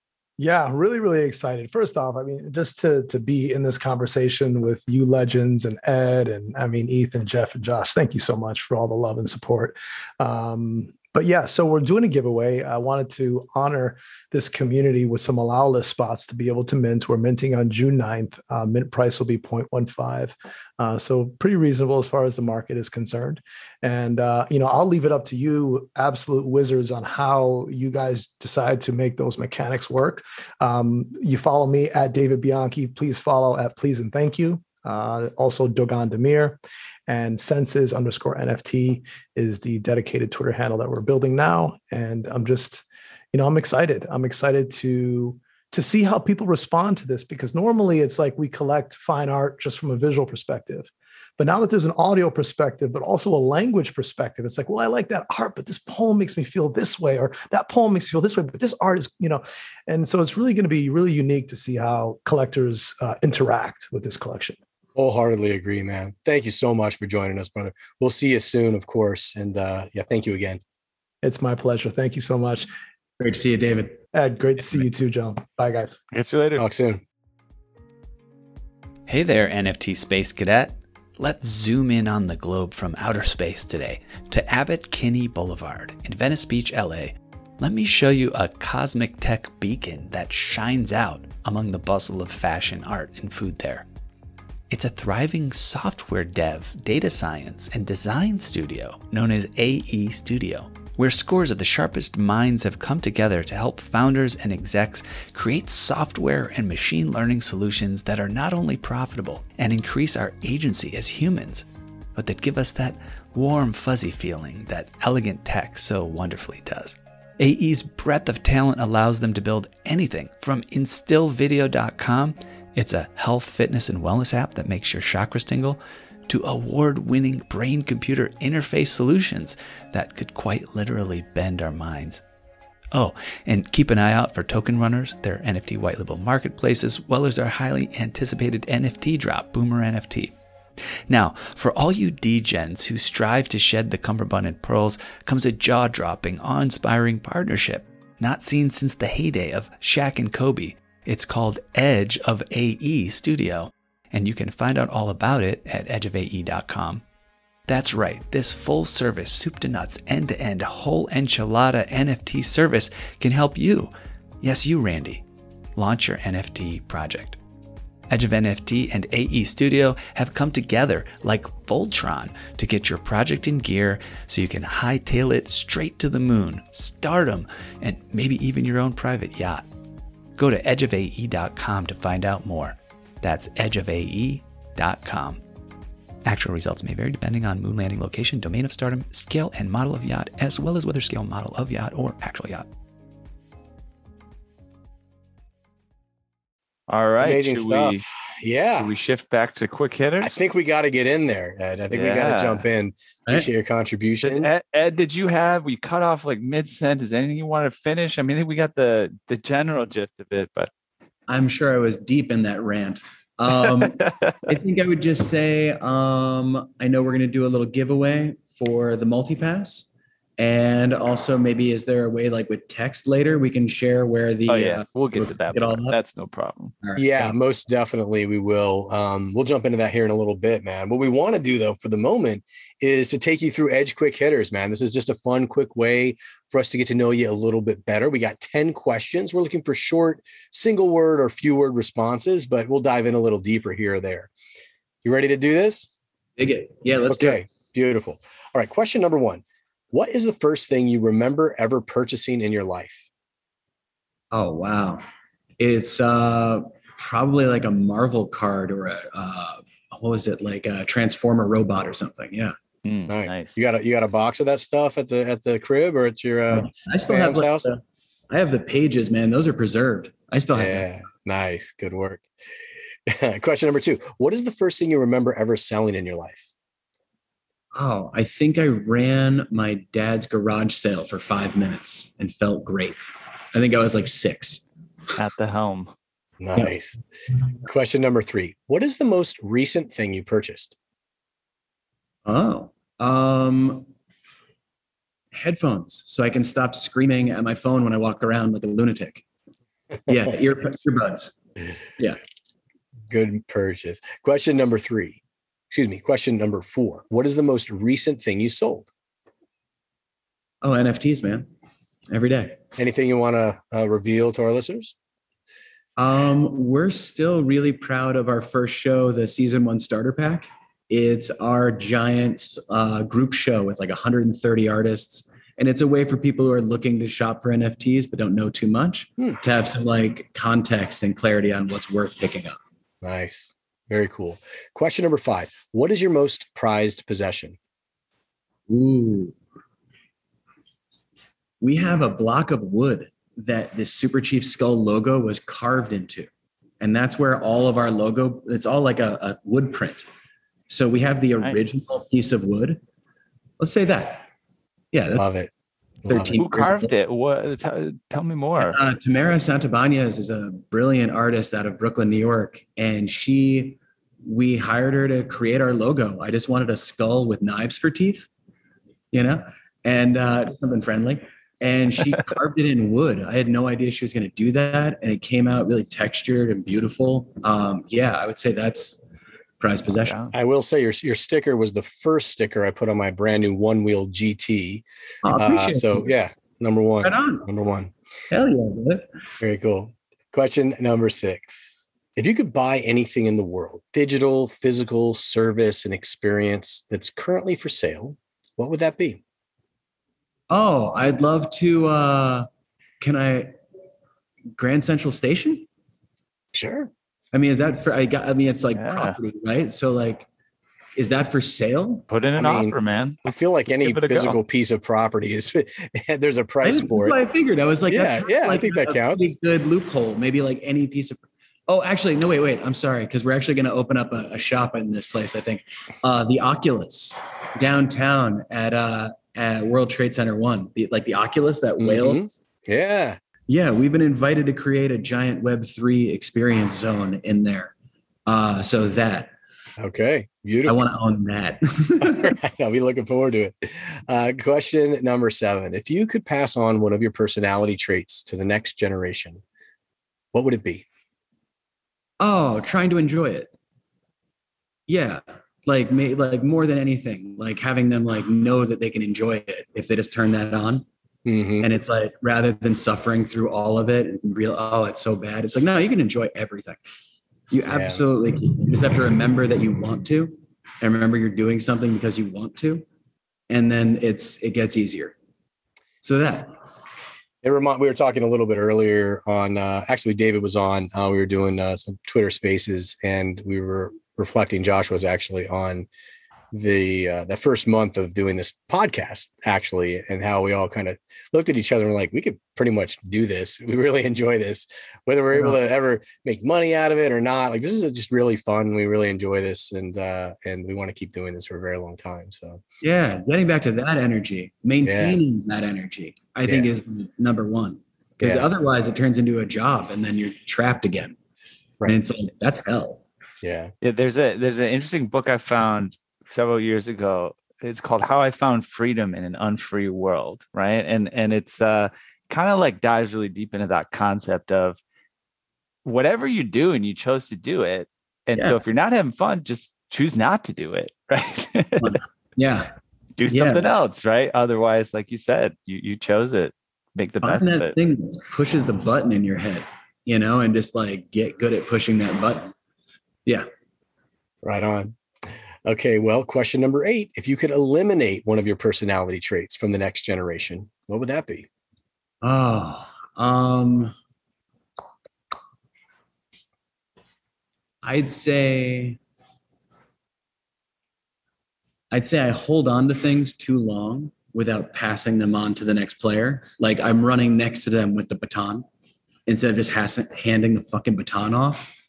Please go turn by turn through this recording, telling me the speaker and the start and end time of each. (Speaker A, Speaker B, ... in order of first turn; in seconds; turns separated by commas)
Speaker A: 0.4-64.6, Speaker B: 64.9-70.6, Speaker A: 71.2-72.7, Speaker C: 73.2-74.0, Speaker A: 74.1-76.0, Speaker D: 76.1-76.6, Speaker B: 76.6-77.0, Speaker E: 79.1-93.9, Speaker E: 94.7-132.2, Speaker E: 132.9-140.3, Speaker E: 141.1-157.0, Speaker E: 157.7-165.2, Speaker E: 165.8-167.4, Speaker E: 168.1-179.7, Speaker E: 180.4-185.4, Speaker E: 186.2-192.7, Speaker D: 196.9-198.1, Speaker B: 197.2-198.9, Speaker D: 198.8-200.3, Speaker B: 200.2-204.5, Speaker D: 201.9-202.6, Speaker D: 204.2-210.7, Speaker C: 211.3-219.9, Speaker D: 213.7-214.4, Speaker C: 220.4-225.9, Speaker D: 224.5-226.7, Speaker C: 226.8-227.4, Speaker B: 226.9-244.3, Speaker B: 245.0-245.9, Speaker C: 246.4-247.4, Speaker B: 247.1-253.1, Speaker C: 254.3-255.0, Speaker C: 255.6-262.6, Speaker D: 262.8-263.6, Speaker B: 263.1-267.7, Speaker C: 266.5-270.9, Speaker B: 270.6-272.2, Speaker B: 273.1-276.4, Speaker C: 277.7-283.0, Speaker C: 283.5-284.6, Speaker D: 285.1-285.9, Speaker B: 286.4-287.0, Speaker B: 287.6-290.7, Speaker C: 292.3-293.9, Speaker C: 295.3-299.2, Speaker C: 300.1-301.3, Speaker B: 303.1-305.2, Speaker B: 305.7-308.9, Speaker C: 310.6-311.5, Speaker C: 312.1-312.6, Speaker B: 312.8-314.9, Speaker C: 316.0-332.6, Speaker B: 333.0-337.6, Speaker C: 338.7-339.4, Speaker C: 341.6-346.3, Speaker C: 346.8-350.1, Speaker C: 350.7-352.8, Speaker C: 353.6-354.3, Speaker C: 354.9-355.3, Speaker B: 355.1-355.5, Speaker B: 356.0-356.4, Speaker C: 356.1-356.9, Speaker D: 356.3-358.8, Speaker C: 358.6-368.3, Speaker C: 369.1-379.0, Speaker C: 379.6-380.2, Speaker D: 380.1-380.3, Speaker B: 380.3-387.9, Speaker C: 385.2-386.1, Speaker C: 387.0-387.5, Speaker C: 388.3-389.1, Speaker B: 389.4-399.2, Speaker C: 400.5-402.5, Speaker C: 403.0-403.6, Speaker C: 404.6-405.7, Speaker B: 406.5-406.9, Speaker C: 407.3-410.3, Speaker D: 408.8-409.2, Speaker C: 411.0-412.1, Speaker D: 412.1-414.4, Speaker B: 412.4-417.2, Speaker C: 416.6-432.4, Speaker B: 417.9-419.3, Speaker B: 431.8-433.2, Speaker C: 433.5-437.7, Speaker C: 438.3-439.3, Speaker B: 439.8-440.8, Speaker C: 440.6-442.3, Speaker B: 442.0-449.4, Speaker B: 450.3-450.8, Speaker C: 452.2-453.5, Speaker C: 454.9-460.9, Speaker B: 461.3-461.7, Speaker C: 461.6-466.8, Speaker C: 467.5-472.8, Speaker B: 467.7-468.0, Speaker C: 473.5-475.1, Speaker C: 476.0-476.5, Speaker B: 477.4-485.9, Speaker B: 486.5-502.6, Speaker C: 502.8-511.1, Speaker B: 504.8-505.2, Speaker B: 508.2-508.5, Speaker C: 511.9-513.0, Speaker B: 513.4-513.7, Speaker D: 513.8-524.8, Speaker D: 525.8-532.0, Speaker C: 531.8-532.7, Speaker D: 533.2-537.8, Speaker C: 533.3-533.7, Speaker C: 537.2-542.5, Speaker B: 544.4-545.0, Speaker B: 545.6-551.5, Speaker C: 552.2-553.9, Speaker C: 557.8-559.0, Speaker C: 561.9-568.6, Speaker C: 569.3-571.7